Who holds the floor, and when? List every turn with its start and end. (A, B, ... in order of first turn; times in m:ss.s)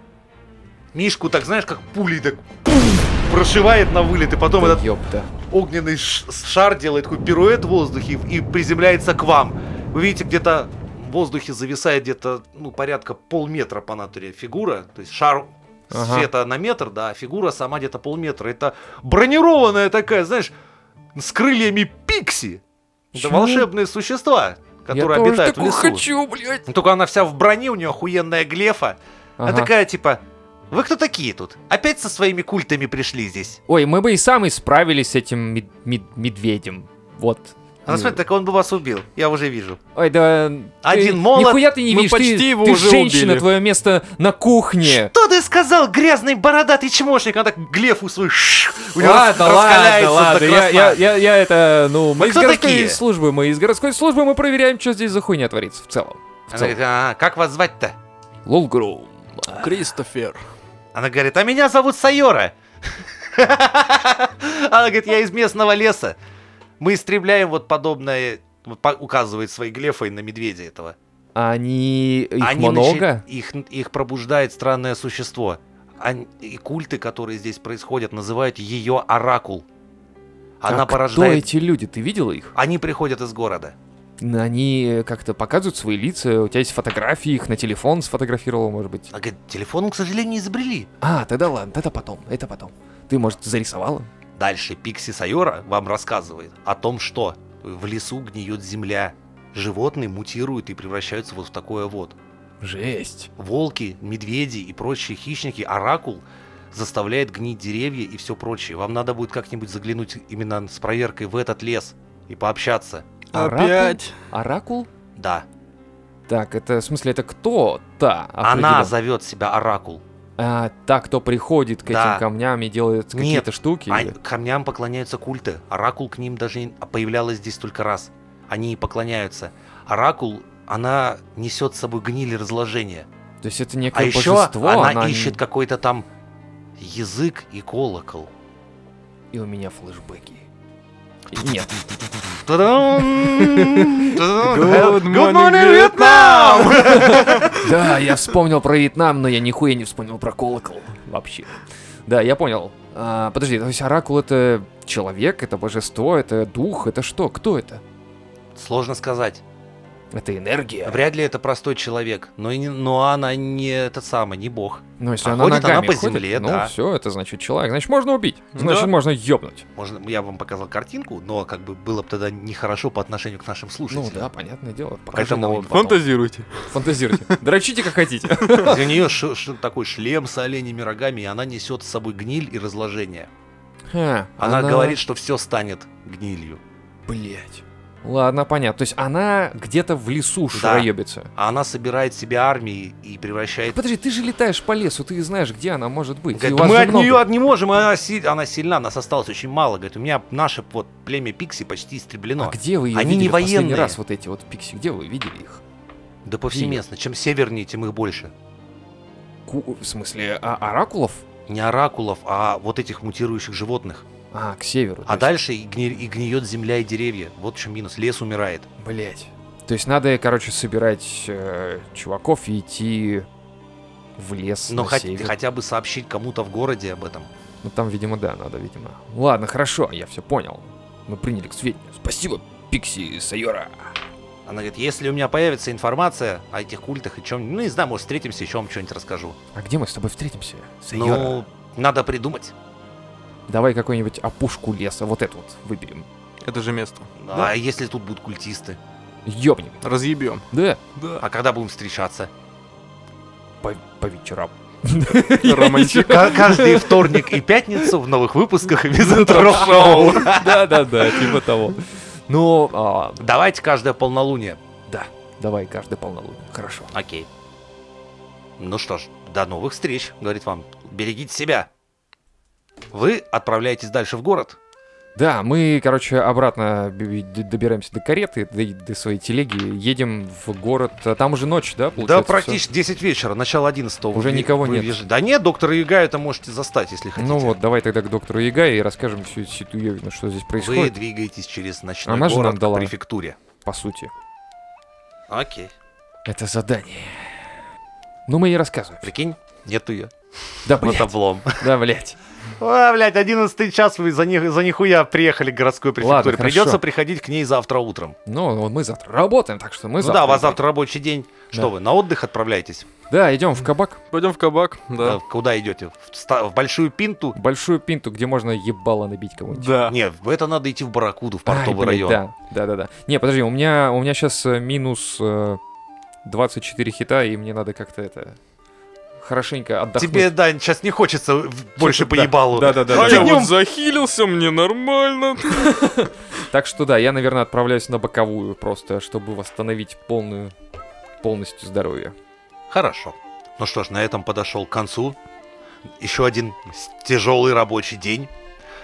0:00.9-0:04.8 A
0:04.6-0:05.3 B
0:05.5-0:20.5 A
0:15.9-0:16.3 B
0:21.1-0:22.6 A
0:23.1-0:26.0 A
0:23.1-0:23.7 B
0:24.9-0:26.7 B
0:26.7-0:33.6 A
0:29.4-0:29.7 B
0:33.7-0:38.2 B
0:37.9-0:39.8 A
0:40.0-0:45.1 B
0:40.8-0:41.7 A
0:41.9-0:43.5 C
0:44.8-0:51.0 A
0:49.0-0:56.8 B
0:52.2-0:53.0 A
0:56.5-0:58.0 A
0:58.4-0:59.8 B
0:59.5-1:00.4 C
1:01.0-1:06.2 A
1:06.8-1:11.0 A
1:11.4-1:13.2 B
1:12.4-1:19.6 A
1:20.6-1:21.4 A
1:20.7-1:22.5 B
1:22.6-1:23.8 A
1:24.2-1:29.1 B
1:29.1-1:30.9 A
1:31.0-1:34.1 B
1:34.4-1:42.2 A
1:42.6-1:43.3 B
1:43.4-1:53.1 A
1:53.3-1:54.9 B
1:53.3-1:54.1 C
1:55.2-1:55.4 A
1:56.3-1:58.9 B
1:58.4-2:00.0 A
2:00.4-2:04.1 B
2:01.8-2:02.2 A
2:03.1-2:13.1 A
2:13.4-2:15.4 B
2:13.9-2:16.1 A
2:16.8-2:18.3 A
2:19.3-2:20.4 B
2:21.3-2:22.2 B
2:22.4-2:27.7 A
2:23.0-2:25.0 B
2:24.4-2:27.5 C
2:26.9-2:31.5 B
2:32.1-2:37.8 B
2:38.6-2:39.4 A
2:40.1-2:41.0 B
2:40.8-2:46.7 A
2:45.0-2:49.6 B
2:48.6-2:48.9 C
2:49.8-2:54.3 A
2:53.9-2:56.0 B
2:55.1-2:55.7 A
2:55.6-2:57.4 C
2:56.7-2:59.0 B
2:58.4-2:58.7 C
2:58.6-3:03.3 A
3:03.9-3:05.0 B
3:04.4-3:06.6 A
3:07.1-3:11.3 B
3:10.5-3:13.8 A
3:13.7-3:17.3 B
3:16.3-3:24.0 A
3:22.4-3:25.6 B
3:26.3-3:28.3 A
3:26.5-3:26.8 B
3:29.4-3:31.2 B
3:31.5-3:34.1 A
3:34.3-3:35.3 B
3:35.1-3:38.7 A
3:38.8-3:43.3 B
3:44.2-3:45.3 B
3:44.7-3:47.3 A
3:47.6-3:54.0 B
3:54.4-3:59.4 A
3:59.6-4:01.4 B
4:00.9-4:02.6 A
4:03.5-4:06.1 B
4:06.4-4:07.1 C
4:07.2-4:08.8 A
4:09.3-4:09.8 B
4:09.8-4:10.4 C
4:10.5-4:11.2 B
4:11.2-4:12.3 A
4:13.6-4:17.9 B
4:15.3-4:16.4 C
4:16.0-4:20.8 A
4:19.0-4:23.2 B
4:19.5-4:20.0 C
4:23.2-4:24.6 A
4:24.9-4:26.9 B
4:26.9-4:27.3 A
4:28.6-4:31.7 A
4:32.9-4:34.6 A
4:35.2-4:42.6 B
4:42.0-4:47.6 A
4:44.1-4:45.0 B
4:47.2-4:51.0 B
4:50.6-4:53.4 A
4:52.0-4:52.9 B
4:53.6-4:54.1 B
4:55.3-4:55.7 A
4:56.3-4:57.5 B
4:58.3-4:59.1 B
4:59.0-5:00.1 A
5:00.6-5:01.7 A
5:00.6-5:02.2 B
5:02.6-5:08.2 A
5:06.0-5:06.8 B
5:08.3-5:10.6 B
5:10.0-5:12.9 A
5:13.1-5:14.0 B
5:14.1-5:15.2 C
5:15.0-5:17.4 A
5:17.4-5:19.8 B
5:19.5-5:20.0 C
5:19.9-5:22.2 A
5:21.4-5:25.6 B
5:26.2-5:28.4 B
5:29.2-5:30.3 B
5:30.0-5:33.6 A
5:31.8-5:33.4 B
5:32.8-5:35.7 C
5:35.5-5:40.5 B
5:41.2-5:42.1 B
5:42.7-5:45.2 A
5:46.0-5:48.3 A